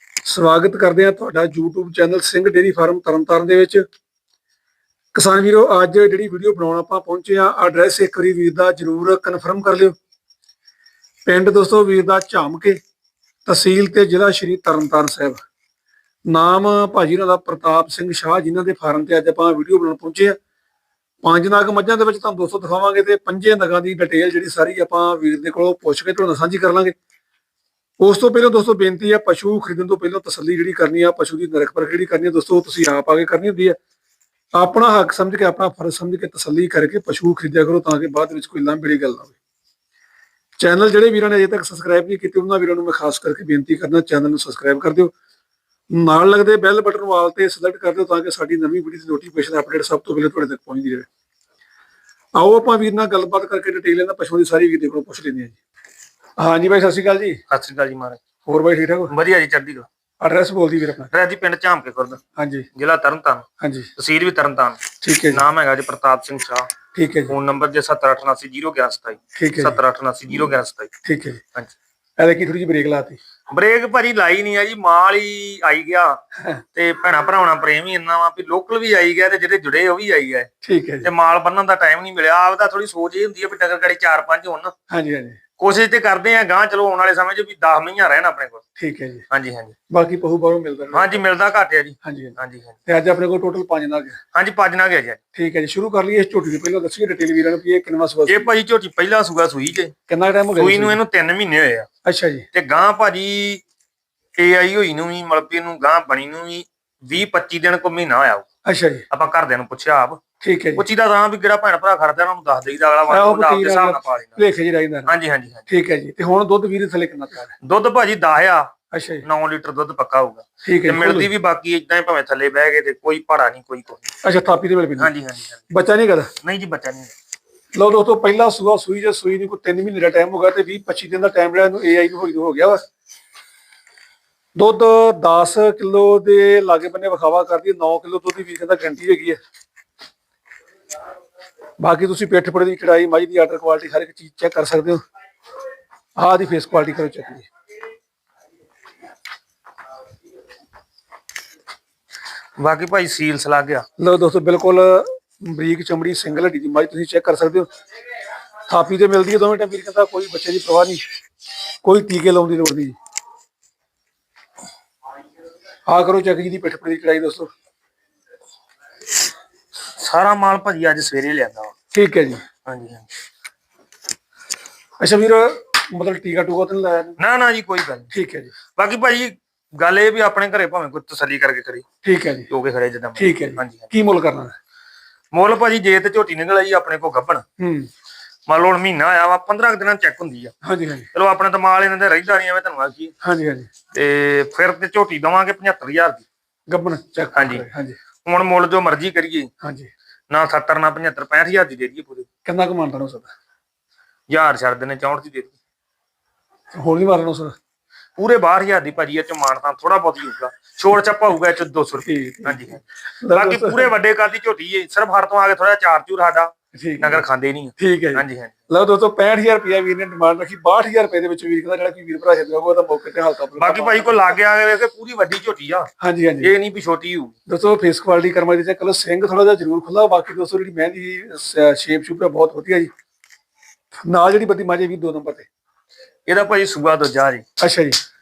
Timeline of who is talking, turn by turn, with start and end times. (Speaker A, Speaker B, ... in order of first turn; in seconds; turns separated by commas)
Speaker A: 0.2-3.8, Speaker A: 5.1-9.9, Speaker A: 11.3-12.8, Speaker A: 13.5-15.4, Speaker A: 16.3-20.4, Speaker A: 21.2-26.9, Speaker A: 28.0-33.8, Speaker A: 34.6-39.4, Speaker A: 40.6-45.1, Speaker A: 45.9-51.1, Speaker A: 52.4-55.6, Speaker A: 56.4-57.4, Speaker B: 57.5-58.2, Speaker A: 58.5-59.1, Speaker B: 59.1-59.9, Speaker A: 60.2-61.1, Speaker B: 61.1-62.2, Speaker A: 62.4-62.7, Speaker B: 62.8-63.5, Speaker A: 63.6-63.9, Speaker B: 64.0-66.7, Speaker A: 65.0-65.5, Speaker A: 66.9-67.3, Speaker B: 67.3-70.9, Speaker A: 69.3-69.8, Speaker A: 71.0-71.4, Speaker A: 72.2-73.2, Speaker B: 73.5-76.2, Speaker B: 76.8-80.5, Speaker A: 80.6-81.1, Speaker B: 81.0-84.7, Speaker A: 84.9-85.4, Speaker B: 85.6-88.6, Speaker A: 88.8-89.2, Speaker B: 89.3-89.8, Speaker A: 89.9-91.2, Speaker B: 90.9-92.8, Speaker A: 92.0-94.2, Speaker B: 94.3-95.2, Speaker A: 95.3-98.5, Speaker B: 98.3-99.9, Speaker A: 100.1-101.0, Speaker B: 100.5-101.9, Speaker A: 102.0-102.5, Speaker B: 102.5-103.6, Speaker B: 104.4-108.5, Speaker A: 108.7-109.1, Speaker B: 109.1-110.2, Speaker A: 110.4-110.9, Speaker B: 110.8-114.4, Speaker A: 113.1-115.1, Speaker B: 115.1-115.6, Speaker A: 115.7-117.5, Speaker B: 117.6-118.7, Speaker A: 118.9-119.2, Speaker B: 119.2-124.1, Speaker A: 120.6-121.3, Speaker A: 124.2-125.1, Speaker B: 125.0-125.6, Speaker A: 125.7-126.3, Speaker B: 126.4-127.1, Speaker A: 127.8-132.8, Speaker A: 134.6-139.4, Speaker A: 141.8-145.0, Speaker A: 146.2-147.5, Speaker B: 152.6-153.8, Speaker A: 154.0-157.7, Speaker A: 158.7-161.0, Speaker A: 161.8-163.0, Speaker A: 165.9-167.5, Speaker B: 170.0-171.7, Speaker A: 171.9-172.4, Speaker B: 172.7-173.1, Speaker A: 175.0-177.2, Speaker B: 177.2-178.1, Speaker A: 178.1-178.5, Speaker B: 178.8-181.8, Speaker A: 182.0-182.5, Speaker B: 182.5-183.9, Speaker A: 183.2-184.6, Speaker B: 185.3-187.4, Speaker A: 187.6-187.9, Speaker B: 188.5-190.5, Speaker A: 190.6-191.1, Speaker B: 191.1-193.1, Speaker A: 193.2-193.7, Speaker B: 193.9-196.2, Speaker A: 196.7-198.0, Speaker B: 197.3-197.7, Speaker B: 198.2-199.5, Speaker A: 199.6-199.9, Speaker B: 200.3-202.3, Speaker A: 202.4-203.3, Speaker B: 204.3-205.5, Speaker A: 206.7-207.6, Speaker B: 208.2-218.6, Speaker A: 212.1-213.9, Speaker A: 216.7-217.2, Speaker A: 217.8-224.4, Speaker B: 223.6-225.9, Speaker A: 226.0-226.5, Speaker B: 226.4-227.3, Speaker A: 227.5-232.9, Speaker A: 234.1-235.5, Speaker B: 236.3-237.4, Speaker A: 237.6-238.0